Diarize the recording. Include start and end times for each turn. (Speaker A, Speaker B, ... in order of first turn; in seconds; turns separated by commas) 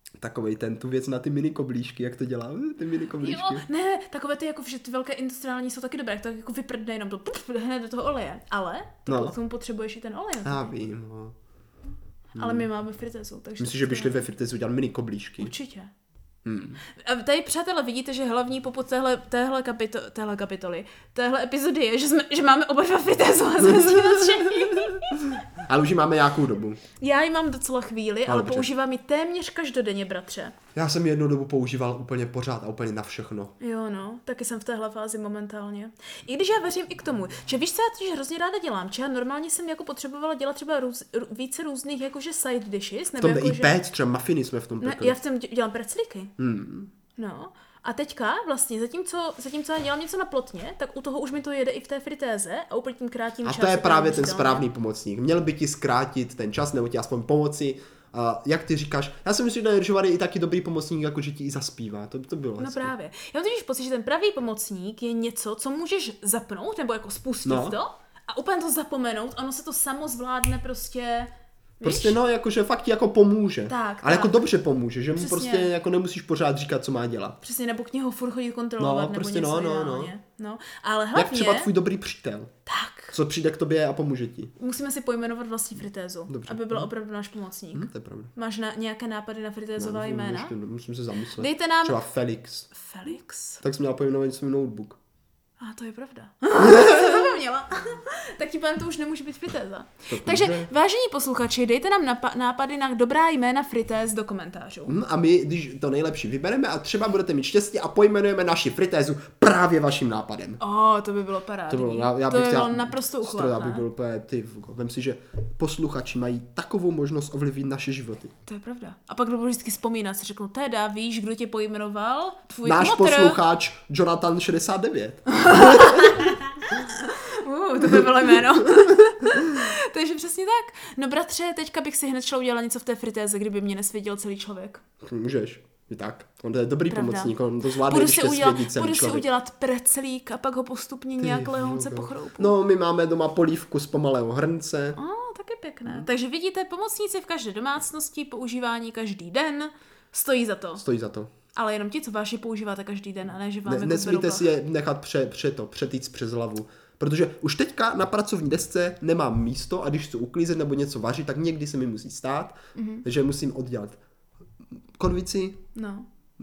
Speaker A: 0.2-3.6, Speaker B: 3.2-10.8, Speaker A: 9.1-9.4, Speaker A: 10.4-11.3, Speaker B: 12.3-14.2, Speaker A: 12.4-12.7, Speaker A: 13.6-15.5, Speaker B: 15.4-15.9, Speaker A: 16.4-16.8, Speaker B: 16.9-25.3, Speaker A: 23.6-26.8, Speaker B: 27.0-30.6, Speaker A: 28.3-28.7, Speaker A: 30.8-33.5, Speaker B: 33.6-43.8, Speaker A: 43.2-45.2, Speaker B: 44.8-46.3, Speaker A: 46.4-46.9, Speaker B: 47.2-54.7, Speaker A: 53.5-62.9, Speaker B: 62.6-71.3, Speaker A: 67.5-67.8, Speaker B: 71.8-72.2, Speaker A: 71.8-77.4, Speaker B: 73.7-74.5, Speaker B: 75.2-75.7, Speaker B: 77.4-81.7, Speaker A: 78.8-80.1, Speaker A: 81.2-82.5, Speaker B: 82.7-83.2, Speaker A: 83.1-84.5, Speaker B: 84.6-90.5, Speaker A: 86.3-86.9, Speaker A: 87.7-88.3, Speaker A: 89.8-92.7, Speaker B: 91.4-92.0, Speaker B: 92.7-93.6, Speaker A: 93.6-95.0, Speaker B: 95.6-105.0, Speaker A: 96.6-97.4, Speaker A: 100.1-100.7, Speaker A: 104.9-110.6, Speaker B: 110.6-113.8, Speaker A: 111.7-118.3, Speaker B: 118.5-123.4, Speaker A: 122.6-126.4, Speaker B: 125.4-134.8, Speaker A: 127.9-129.7, Speaker A: 135.0-139.3, Speaker B: 136.9-142.5, Speaker A: 141.2-145.0, Speaker B: 144.9-150.8, Speaker A: 150.8-151.3, Speaker B: 151.5-154.5, Speaker A: 153.7-164.0, Speaker B: 162.8-163.1, Speaker A: 165.0-165.6, Speaker B: 165.7-166.1